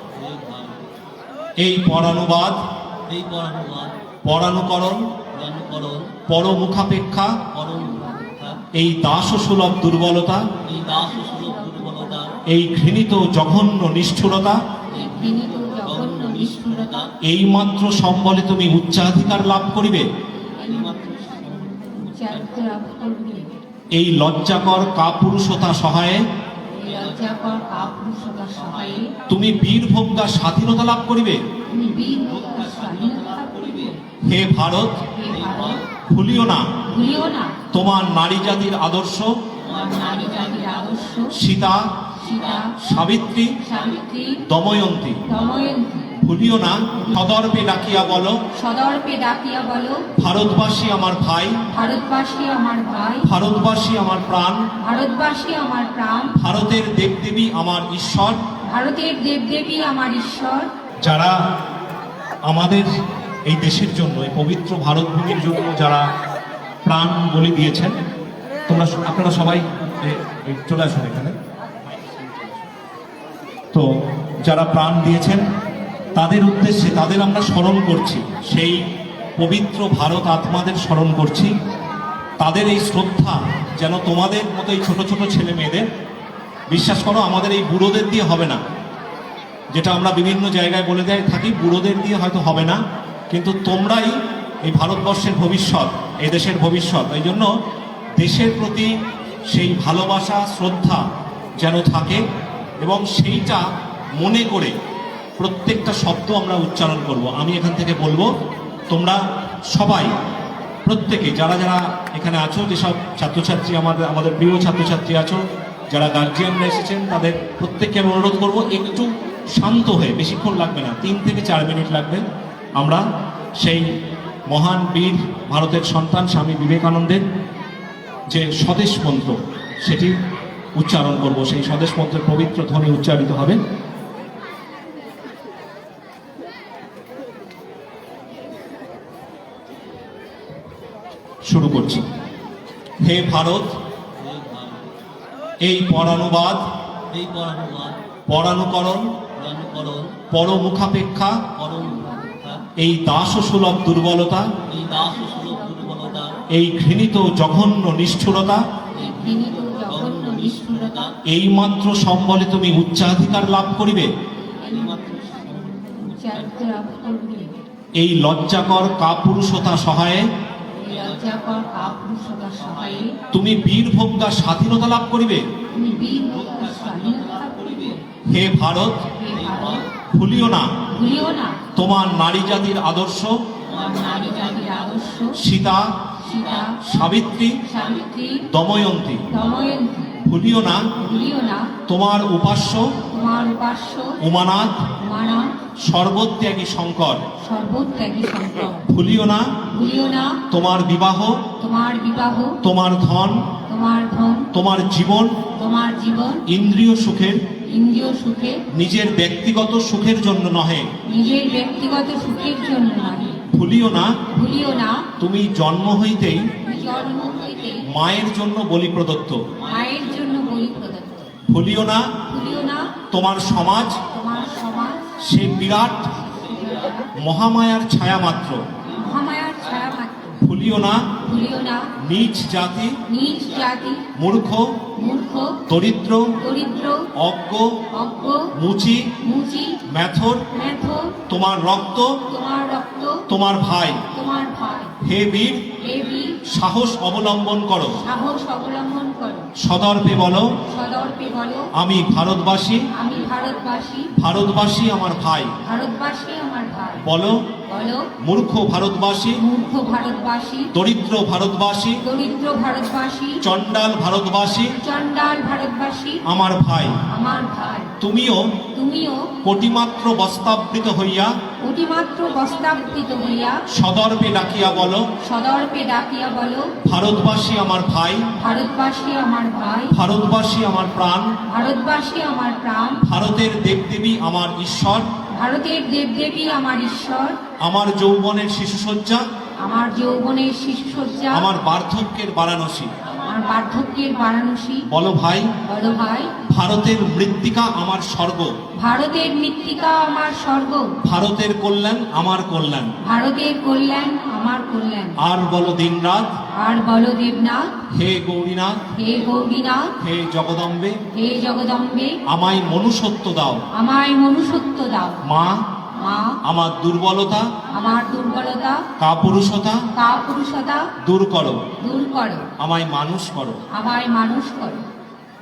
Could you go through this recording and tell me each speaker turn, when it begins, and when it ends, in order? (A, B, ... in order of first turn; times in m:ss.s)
0:00.1-0:00.8 A
0:01.6-0:02.6 B
0:03.1-0:03.9 A
0:04.2-0:05.1 B
0:05.3-0:06.2 A
0:06.2-0:07.4 B
0:07.5-0:08.6 A
0:08.7-0:10.5 B
0:10.6-0:12.3 A
0:10.8-0:12.2 C
0:12.5-0:14.6 B
0:14.9-0:17.0 C
0:14.9-0:17.1 A
0:17.2-0:20.1 B
0:20.6-0:23.5 C
0:20.7-0:22.5 A
0:23.9-0:26.2 B
0:26.7-0:29.1 C
0:26.8-0:29.0 A
0:29.3-0:31.4 B
0:31.7-0:34.0 C
0:32.3-0:34.0 A
0:34.2-0:35.1 B
0:35.1-0:35.8 C
0:35.3-0:35.8 A
0:36.0-0:36.8 B
0:36.9-0:37.6 C
0:37.7-0:39.4 B
0:39.6-0:41.2 A
0:39.7-0:41.4 C
0:41.3-0:42.0 B
0:42.2-0:42.7 C
0:42.2-0:42.7 A
0:42.8-0:43.6 B
0:43.6-0:44.4 C
0:44.4-0:45.2 B
0:45.2-0:46.2 C
0:46.2-0:48.4 B
0:48.5-0:50.1 C
0:50.1-0:51.6 B
0:51.7-0:53.3 C
0:53.2-0:54.6 B
0:54.8-0:56.4 C
0:56.3-0:58.4 B
0:58.7-1:00.7 C
1:01.0-1:01.4 B
1:02.4-1:02.9 B
1:03.4-1:06.1 B
1:06.8-1:08.0 B
1:08.7-1:11.4 B
1:14.4-1:15.5 B
1:16.1-1:21.5 B
1:22.4-1:25.9 B
1:26.7-1:28.6 B
1:29.7-1:37.5 B
1:38.2-1:38.9 B
1:39.5-1:41.0 B
1:41.6-1:42.2 B
1:42.8-1:44.8 B
1:45.4-1:48.3 B
1:48.9-1:50.2 B
1:50.8-2:02.2 B
2:02.8-2:03.0 B
2:03.6-2:03.9 B
2:04.5-2:07.2 B
2:08.3-2:10.2 B
2:10.7-2:13.6 B
2:21.4-2:22.1 B
2:23.0-2:23.8 B
2:24.2-2:24.9 A
2:25.6-2:26.6 B
2:27.1-2:28.0 A
2:28.3-2:29.2 B
2:29.4-2:30.2 A
2:30.3-2:31.4 B
2:31.6-2:32.6 A
2:31.9-2:32.2 C
2:32.7-2:34.5 B
2:34.7-2:36.4 A
2:34.8-2:36.2 C
2:36.5-2:38.6 B
2:38.9-2:41.1 C
2:38.9-2:41.1 A
2:41.2-2:44.1 B
2:44.6-2:47.5 C
2:44.7-2:46.6 A
2:48.0-2:50.3 B
2:50.8-2:53.2 C
2:50.8-2:53.0 A
2:53.3-2:55.4 B
2:55.7-2:58.0 C
2:56.3-2:58.0 A
2:58.3-2:59.1 B
2:59.2-2:59.8 C
2:59.3-2:59.9 A
3:00.1-3:00.7 B
3:00.9-3:01.6 C
3:01.7-3:03.4 B
3:03.6-3:05.3 A
3:03.7-3:05.4 C
3:05.3-3:06.1 B
3:06.2-3:06.8 C
3:06.3-3:06.7 A
3:06.8-3:07.6 B
3:07.6-3:08.4 C
3:08.5-3:09.3 B
3:09.3-3:10.2 C
3:10.2-3:10.9 B
3:11.0-3:11.7 C
3:11.8-3:13.0 B
3:13.1-3:14.2 C
3:14.2-3:14.9 B
3:15.0-3:15.6 C
3:15.8-3:17.2 B
3:17.4-3:18.9 C
3:18.8-3:19.6 B
3:19.7-3:20.4 C
3:20.4-3:21.4 B
3:21.6-3:22.6 C
3:22.6-3:23.5 B
3:23.7-3:24.5 C
3:24.5-3:25.4 B
3:25.5-3:26.4 C
3:26.4-3:27.4 B
3:27.6-3:28.6 C
3:28.7-3:31.0 B
3:31.0-3:33.4 C
3:31.0-3:33.4 A
3:33.5-3:34.2 B
3:34.3-3:35.1 C
3:35.2-3:36.5 B
3:36.6-3:37.8 C
3:36.7-3:37.8 A
3:37.8-3:39.5 B
3:39.6-3:40.7 A
3:39.6-3:41.3 C
3:41.5-3:42.1 B
3:42.3-3:42.9 C
3:43.1-3:44.0 B
3:44.0-3:45.2 C
3:45.2-3:46.2 B
3:46.1-3:47.1 A
3:47.1-3:48.6 B
3:48.9-3:49.8 A
3:49.0-3:50.4 C
3:50.4-3:51.1 B
3:51.2-3:51.9 C
3:52.0-3:53.0 B
3:53.1-3:54.0 C
3:54.1-3:54.8 B
3:55.0-3:55.6 C
3:55.6-3:56.4 B
3:56.4-3:57.1 C
3:57.1-3:57.8 B
3:57.9-3:58.5 C
3:58.5-3:59.1 B
3:59.2-3:59.8 C
3:59.8-4:00.5 B
4:00.5-4:01.2 C
4:01.3-4:02.2 B
4:02.3-4:03.2 C
4:03.3-4:04.0 B
4:04.1-4:05.0 C
4:05.0-4:05.7 B
4:05.8-4:06.4 C
4:06.4-4:08.0 B
4:08.0-4:09.5 C
4:09.6-4:10.5 B
4:10.6-4:11.7 C
4:11.7-4:12.9 B
4:12.9-4:14.1 C
4:14.1-4:15.5 B
4:15.6-4:17.1 C
4:17.0-4:17.4 B
4:17.7-4:18.1 C
4:18.2-4:19.4 B
4:19.4-4:20.7 C
4:20.7-4:22.0 B
4:22.0-4:23.4 C
4:23.4-4:24.8 B
4:24.8-4:26.2 C
4:26.2-4:27.0 B
4:27.1-4:27.9 C
4:28.0-4:28.5 B
4:28.7-4:29.4 C
4:29.4-4:31.3 B
4:31.6-4:33.6 C
4:33.7-4:35.1 B
4:35.2-4:36.8 C
4:36.8-4:38.3 B
4:38.4-4:39.9 C
4:39.9-4:41.3 B
4:41.4-4:43.1 C
4:43.0-4:45.1 B
4:45.3-4:47.4 C
4:47.6-4:49.2 B
4:49.6-4:51.4 C
4:51.3-4:52.9 B
4:53.2-4:54.9 C
4:54.8-4:55.5 B
4:55.6-4:56.3 C
4:56.4-4:58.5 B
4:58.8-5:01.0 C
5:01.0-5:02.9 B
5:03.0-5:05.2 C
5:05.2-5:06.4 B
5:06.6-5:07.8 C
5:07.9-5:08.9 B
5:08.9-5:09.9 C
5:10.0-5:11.0 B
5:11.1-5:12.2 C
5:12.2-5:13.6 B
5:13.7-5:15.2 C
5:15.2-5:15.6 B
5:16.0-5:16.4 C
5:16.4-5:17.5 B
5:17.7-5:18.8 C
5:19.0-5:19.9 B
5:19.9-5:20.9 C
5:21.0-5:21.6 B
5:21.8-5:22.5 C
5:22.6-5:23.6 B
5:23.7-5:24.8 C